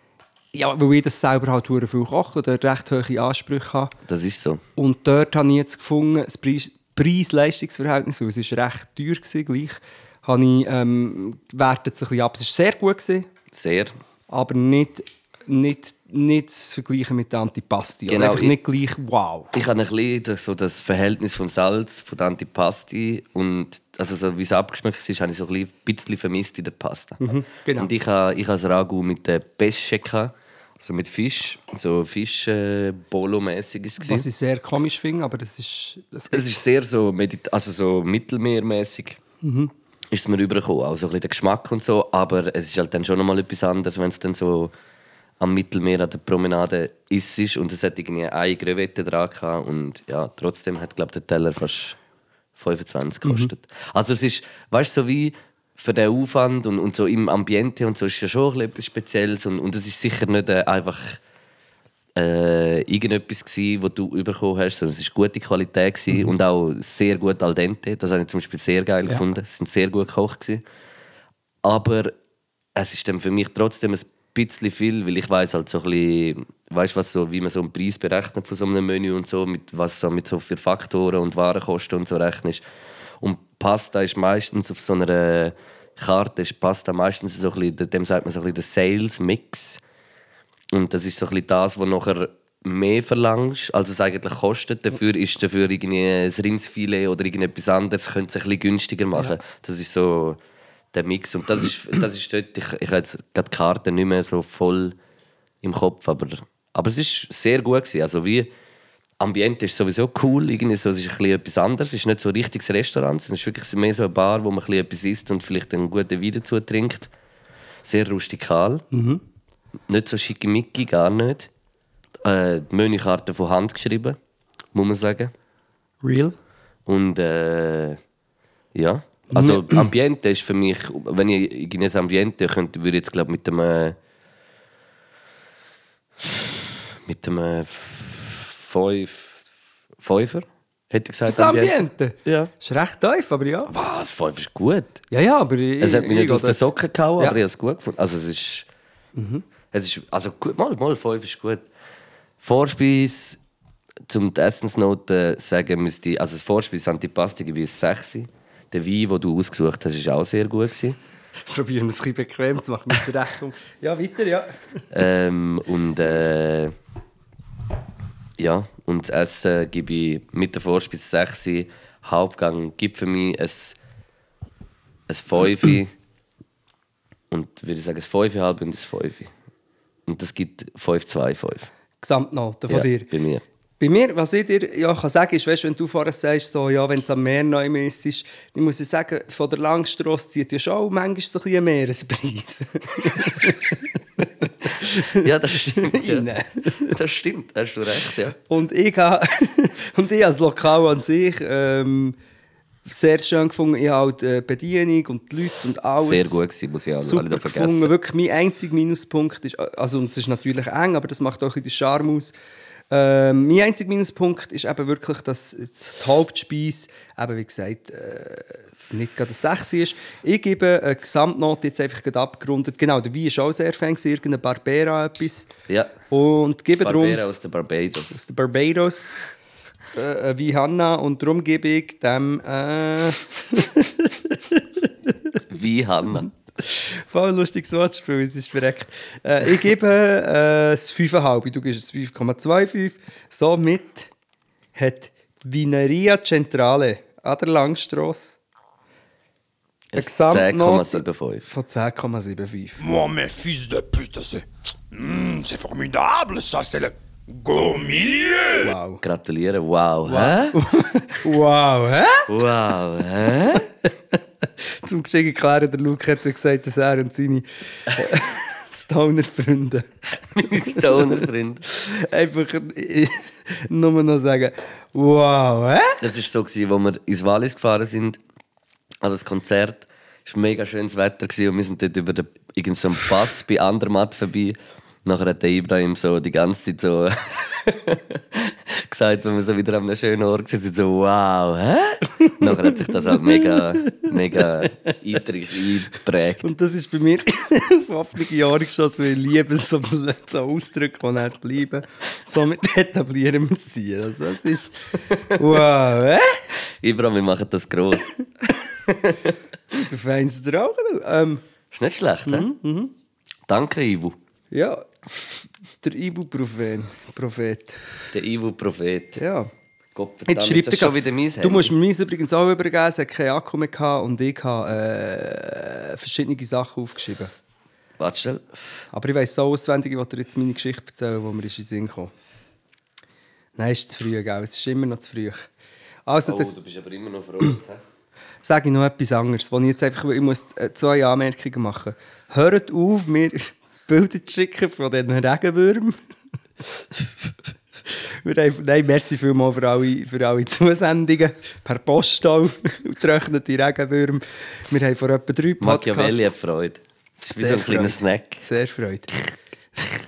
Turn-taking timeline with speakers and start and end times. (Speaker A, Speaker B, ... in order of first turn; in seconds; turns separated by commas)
Speaker A: 0.5-3.9, Speaker B: 4.1-4.6, Speaker A: 4.8-13.3, Speaker B: 13.5-13.9, Speaker A: 14.3-19.5, Speaker B: 18.1-18.6, Speaker B: 19.5-27.2, Speaker A: 27.2-27.9, Speaker B: 27.8-34.3, Speaker A: 34.0-36.5, Speaker B: 36.3-39.2, Speaker A: 39.4-39.7, Speaker B: 40.1-44.7, Speaker B: 45.4-52.0, Speaker B: 52.6-61.2, Speaker A: 53.2-53.5, Speaker B: 62.2-70.6, Speaker B: 71.6-72.1, Speaker B: 72.8-82.6, Speaker B: 83.2-89.8, Speaker B: 90.7-100.4, Speaker B: 100.9-105.0, Speaker B: 105.6-108.5, Speaker B: 109.2-117.1, Speaker B: 117.8-118.8, Speaker A: 118.9-119.2, Speaker B: 119.9-121.5, Speaker B: 122.2-124.2, Speaker B: 124.7-125.3, Speaker A: 126.0-126.3, Speaker B: 126.9-128.0, Speaker B: 128.8-134.0, Speaker A: 129.3-129.9, Speaker B: 136.2-139.4, Speaker B: 140.0-141.7, Speaker A: 141.3-143.7, Speaker B: 142.3-142.5, Speaker B: 143.7-145.0, Speaker A: 145.1-146.6, Speaker B: 145.8-148.7, Speaker A: 149.2-149.4, Speaker B: 149.7-151.7, Speaker B: 152.4-153.4, Speaker B: 154.1-161.0, Speaker A: 161.5-164.5, Speaker B: 164.9-166.7, Speaker B: 168.4-173.8, Speaker B: 175.1-175.9, Speaker B: 177.3-179.3, Speaker B: 180.1-181.7, Speaker A: 182.0-183.1, Speaker B: 182.7-183.4, Speaker A: 183.8-197.0, Speaker B: 195.1-196.3, Speaker B: 196.8-198.4, Speaker A: 198.5-202.2, Speaker A: 202.9-206.4, Speaker B: 206.0-207.9, Speaker A: 207.0-212.3, Speaker A: 212.9-225.5, Speaker B: 225.7-225.9, Speaker A: 226.1-227.2, Speaker B: 226.8-228.2, Speaker A: 228.1-229.1, Speaker A: 229.9-235.4, Speaker B: 235.5-236.3, Speaker A: 236.6-244.1, Speaker A: 244.8-248.4, Speaker B: 249.9-251.5, Speaker A: 249.9-252.8, Speaker C: 252.8-258.7, Speaker A: 258.6-259.0, Speaker B: 259.0-260.6, Speaker A: 260.1-262.3, Speaker B: 262.3-263.7, Speaker A: 264.1-269.9, Speaker B: 270.2-271.6, Speaker A: 270.8-276.0, Speaker B: 276.0-278.2, Speaker B: 279.0-296.5, Speaker A: 292.2-294.9, Speaker A: 296.4-306.4, Speaker B: 306.8-308.2, Speaker B: 308.9-309.4, Speaker A: 309.8-311.4, Speaker B: 311.7-312.5, Speaker A: 312.3-312.9, Speaker B: 313.5-314.2, Speaker A: 314.5-314.9, Speaker A: 315.8-317.8, Speaker B: 318.1-319.2, Speaker A: 319.2-319.5, Speaker B: 319.9-321.7, Speaker A: 320.3-327.3, Speaker B: 328.0-328.6, Speaker A: 328.9-332.1, Speaker A: 333.6-335.5, Speaker A: 336.1-336.5, Speaker B: 336.3-337.8, Speaker A: 338.4-346.0, Speaker A: 347.9-356.3, Speaker B: 355.6-358.4, Speaker A: 357.4-359.1